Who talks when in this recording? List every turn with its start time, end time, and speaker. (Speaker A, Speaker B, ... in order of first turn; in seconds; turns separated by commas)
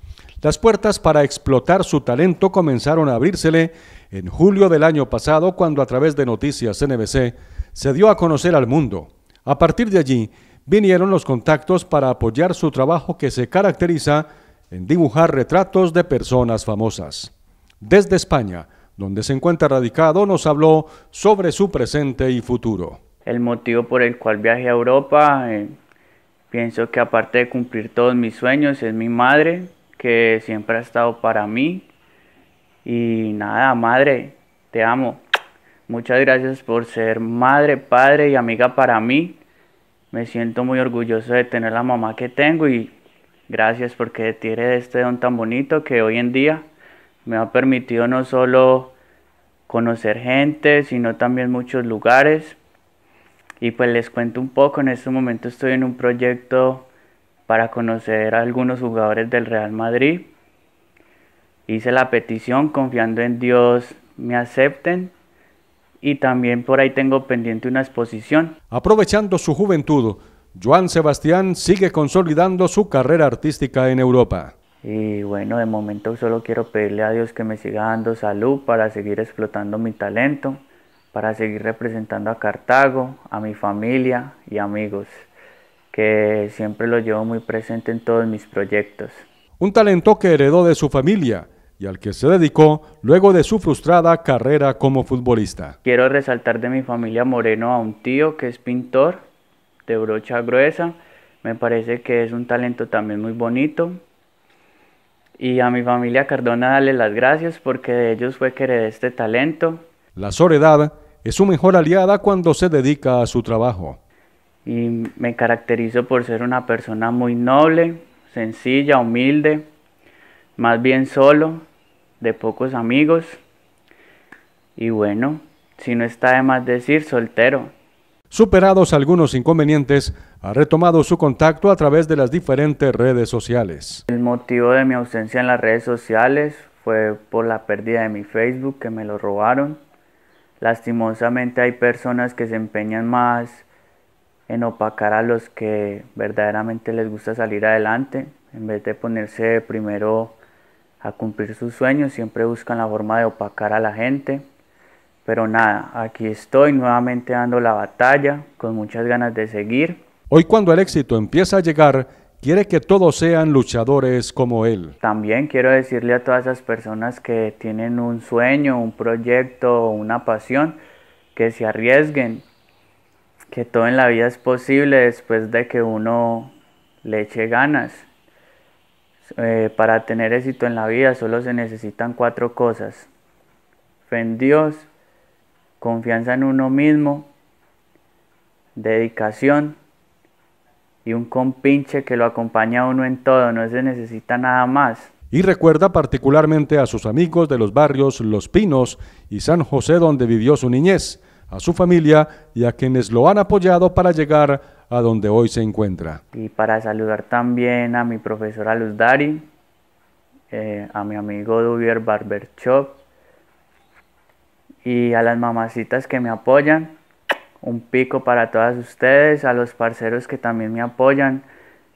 Speaker A: 0.4-23.0, Speaker B: 23.2-25.7, Speaker B: 26.5-31.9, Speaker B: 32.8-35.2, Speaker B: 35.9-39.4, Speaker B: 40.1-42.9, Speaker B: 43.5-46.7, Speaker B: 47.2-49.0, Speaker B: 49.7-52.6, Speaker B: 53.6-56.9, Speaker B: 57.5-60.3, Speaker B: 61.7-65.1, Speaker B: 66.0-68.5, Speaker A: 68.7-74.5, Speaker B: 74.8-80.6, Speaker B: 81.1-85.2, Speaker B: 85.9-89.2, Speaker A: 89.6-95.8, Speaker B: 95.8-99.2, Speaker B: 99.9-104.0, Speaker B: 105.4-109.8, Speaker A: 110.2-114.0, Speaker B: 114.7-119.7, Speaker B: 120.6-121.7, Speaker B: 122.2-123.4, Speaker B: 124.8-127.7, Speaker A: 128.3-134.0, Speaker B: 134.1-139.8, Speaker B: 140.6-143.7, Speaker B: 144.5-150.3, Speaker B: 151.0-154.4, Speaker B: 155.2-160.0, Speaker A: 160.3-164.9, Speaker B: 165.0-170.8, Speaker B: 171.3-172.4, Speaker B: 173.5-178.1, Speaker B: 179.2-183.1, Speaker B: 184.1-184.9, Speaker B: 185.8-187.3, Speaker B: 188.8-189.8, Speaker B: 191.0-195.1, Speaker A: 195.3-206.2, Speaker B: 206.3-209.5, Speaker B: 210.5-213.0, Speaker B: 214.8-216.9, Speaker B: 217.6-221.5